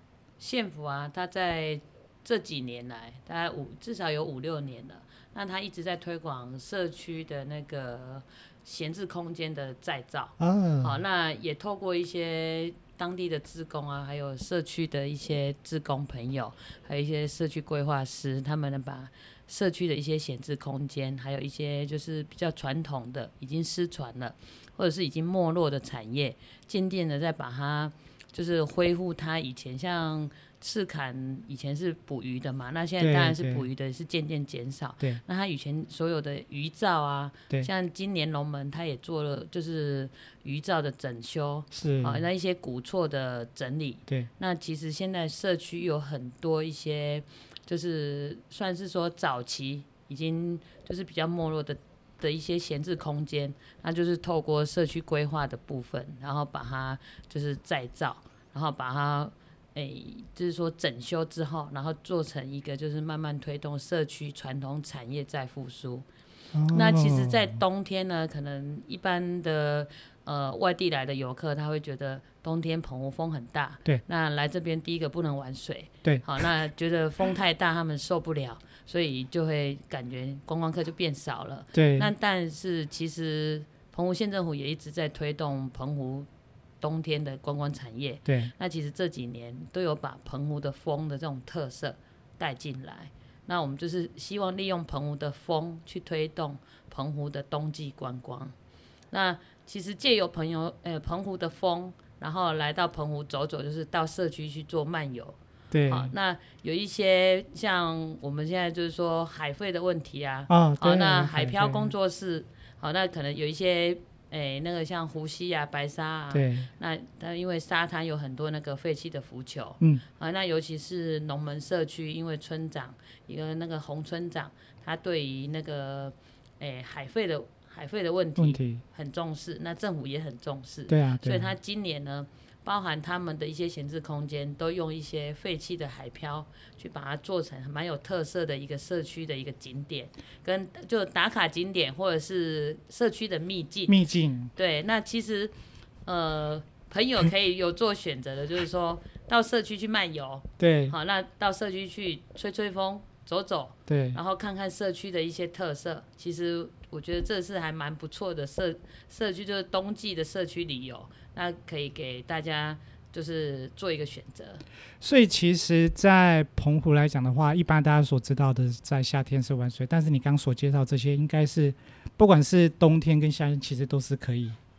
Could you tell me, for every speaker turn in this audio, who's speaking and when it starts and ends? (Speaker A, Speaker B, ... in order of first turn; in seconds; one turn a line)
Speaker A: 0.4-66.0
Speaker B: 10.4-11.0
Speaker B: 33.0-33.6
Speaker B: 41.7-42.2
Speaker B: 66.5-67.6
Speaker A: 66.7-86.3
Speaker B: 76.0-76.4
Speaker B: 81.7-82.1
Speaker A: 86.8-98.5
Speaker B: 88.2-88.5
Speaker A: 99.1-144.0
Speaker B: 105.7-106.1
Speaker B: 110.5-111.9
Speaker B: 116.3-116.7
Speaker B: 128.4-128.8
Speaker B: 130.9-131.5
Speaker B: 143.9-144.5
Speaker A: 144.5-145.5
Speaker A: 146.1-164.6
Speaker B: 150.6-150.9
Speaker B: 153.9-154.2
Speaker B: 165.0-174.6